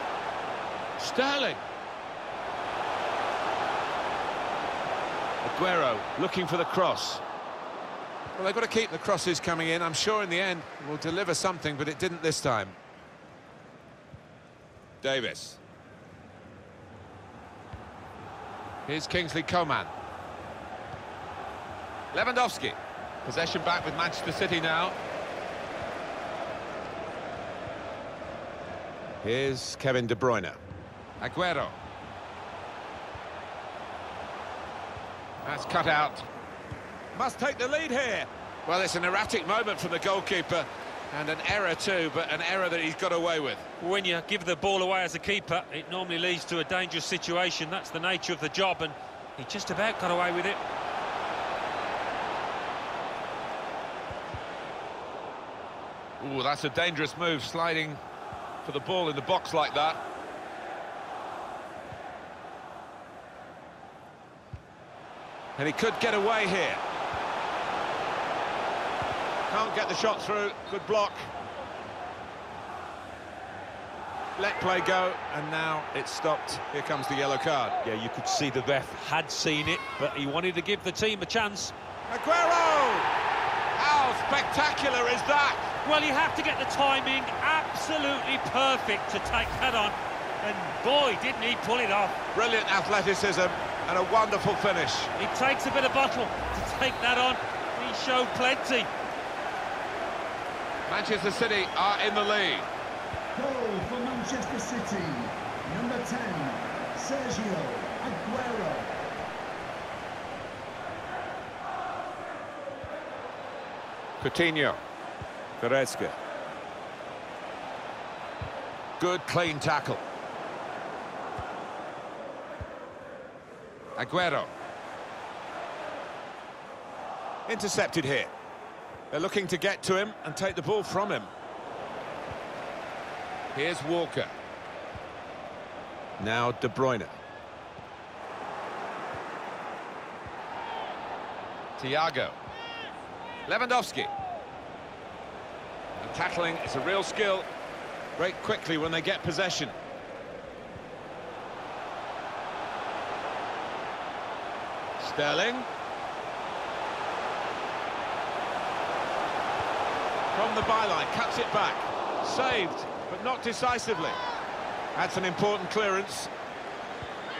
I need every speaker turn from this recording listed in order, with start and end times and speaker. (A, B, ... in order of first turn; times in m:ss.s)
0:01.0-0:01.6 A
0:05.4-0:07.2 A
0:08.4-0:12.8 A
0:15.0-0:15.6 A
0:18.9-0:19.9 A
0:22.1-0:25.0 A
0:29.2-0:30.6 A
0:31.2-0:31.8 A
0:35.4-0:36.3 A
0:37.1-0:43.7 A
0:43.8-0:50.6 B
0:56.2-0:58.0 A
0:58.6-1:00.0 A
1:05.6-1:06.8 A
1:09.5-1:11.3 A
1:14.4-1:17.8 A
1:17.8-1:21.7 B
1:22.1-1:23.1 A
1:23.7-1:25.7 A
1:25.8-1:32.2 B
1:32.3-1:35.1 A
1:35.2-1:38.9 B
1:40.9-1:42.7 A
1:43.4-1:49.1 C
1:54.2-1:54.8 A
1:55.6-1:56.2 A
1:59.0-2:00.0 A
2:04.0-2:04.5 A
2:07.5-2:08.3 A
2:09.1-2:11.3 A
2:13.5-2:14.3 A
2:16.2-2:17.2 A
2:21.8-2:22.4 A
2:23.5-2:24.1 A
2:26.0-2:27.5 A
2:28.2-2:29.8 A
2:35.0-2:35.7 A
2:40.3-2:44.2 A
2:45.0-2:46.3 A